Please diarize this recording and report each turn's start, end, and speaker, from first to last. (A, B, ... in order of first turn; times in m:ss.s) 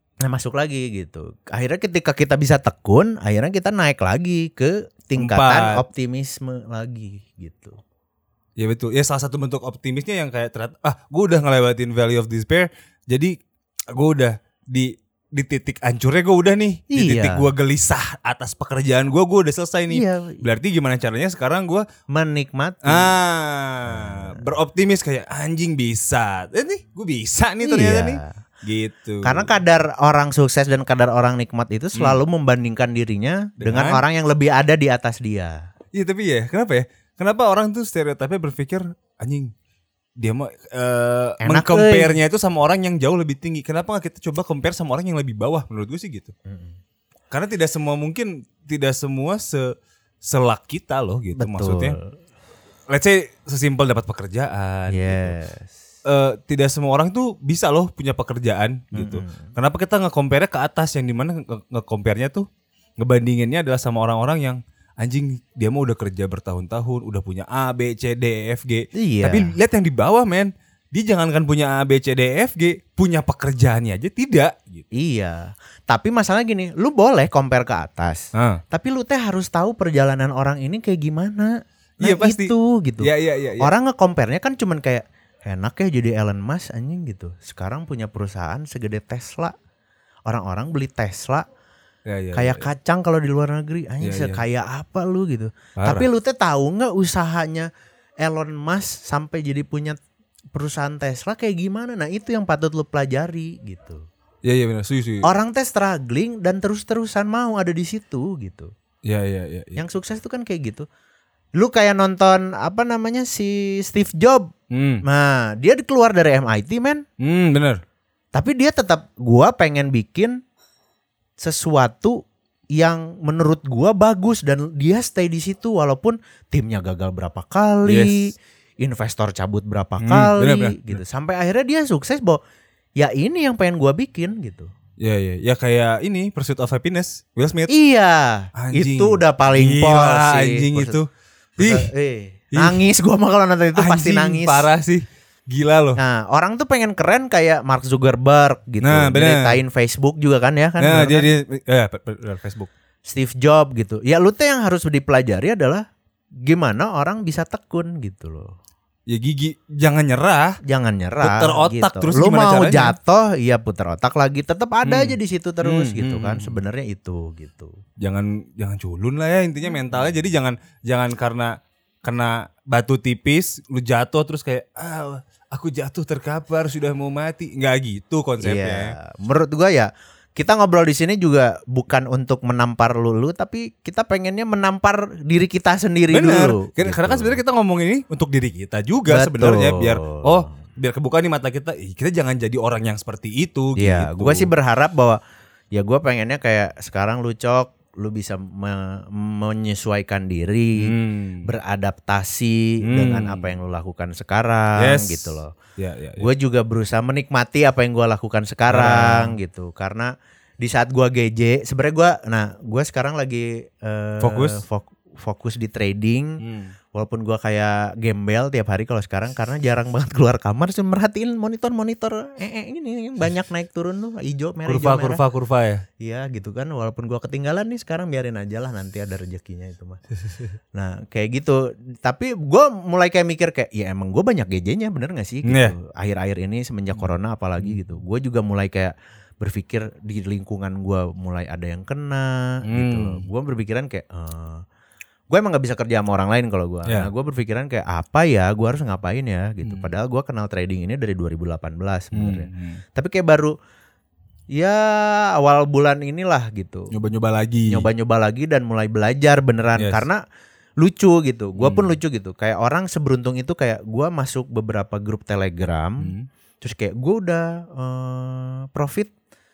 0:00.2-0:07.8 A
0:05.2-0:05.8 B
0:08.6-0:13.4 B
0:13.9-0:21.9 B
0:16.9-0:17.5 A
0:19.9-0:20.4 A
0:22.1-0:23.1 A
0:22.8-0:29.6 B
0:23.9-0:24.4 A
0:27.6-0:28.4 A
0:29.2-0:35.6 A
0:31.9-0:32.2 B
0:33.6-0:34.0 B
0:35.9-0:39.5 B
0:40.2-0:46.3 B
0:41.4-0:42.2 A
0:46.4-0:46.7 A
0:47.3-0:52.0 B
0:51.4-0:52.1 A
0:52.9-0:55.3 B
0:54.9-0:55.7 A
0:56.0-1:02.5 B
0:58.9-0:59.5 A
1:03.0-1:14.8 B
1:08.9-1:09.5 A
1:14.9-1:29.5 A
1:18.3-1:18.6 B
1:22.0-1:23.7 B
1:30.2-1:31.4 A
1:32.0-1:32.7 B
1:32.3-1:37.7 A
1:34.0-1:34.4 B
1:35.8-1:36.1 B
1:38.2-1:40.0 A
1:40.5-1:44.0 A
1:44.4-1:45.3 B
1:45.2-1:48.7 A
1:49.0-1:49.8 B
1:49.8-1:50.8 A
1:51.6-1:54.5 A
1:54.7-1:55.0 B
1:55.0-1:57.0 A
1:57.2-1:57.8 B
1:58.3-2:00.4 A
2:01.4-2:02.2 A
2:02.7-2:12.4 A
2:07.8-2:08.3 B
2:10.0-2:11.0 B
2:13.0-2:14.7 A
2:15.0-2:17.7 B
2:17.7-2:21.0 A
2:18.6-2:21.9 B
2:21.6-2:24.7 A
2:22.5-2:22.8 B
2:23.8-2:26.0 B
2:26.0-2:31.3 A
2:28.8-2:29.6 B
2:30.8-2:32.7 B
2:33.0-2:35.8 A
2:36.4-2:38.5 A
2:39.1-2:40.6 B
2:40.6-2:47.7 A
2:41.2-2:43.0 B
2:44.8-2:46.6 B
2:48.0-2:58.9 B
2:58.4-3:07.4 A
3:06.1-3:14.5 B
3:09.1-3:10.5 A
3:13.8-3:15.2 A
3:15.7-3:25.5 A
3:20.8-3:21.5 B
3:22.8-3:23.5 B
3:24.8-3:26.3 B
3:26.2-3:36.4 A
3:28.7-3:29.3 B
3:34.2-3:34.6 B
3:36.4-3:36.7 B
3:36.9-3:45.2 A
3:44.7-3:45.8 B
3:46.0-3:50.0 A
3:50.7-4:04.6 A
3:55.4-3:55.7 B
4:02.7-4:03.2 B
4:05.3-4:13.5 A
4:09.6-4:09.9 B
4:12.1-4:12.8 B
4:14.5-4:16.9 A
4:16.9-4:17.8 B
4:17.7-4:20.2 A
4:19.8-4:20.0 B
4:20.8-4:29.1 A
4:21.6-4:22.0 B
4:26.0-4:26.3 B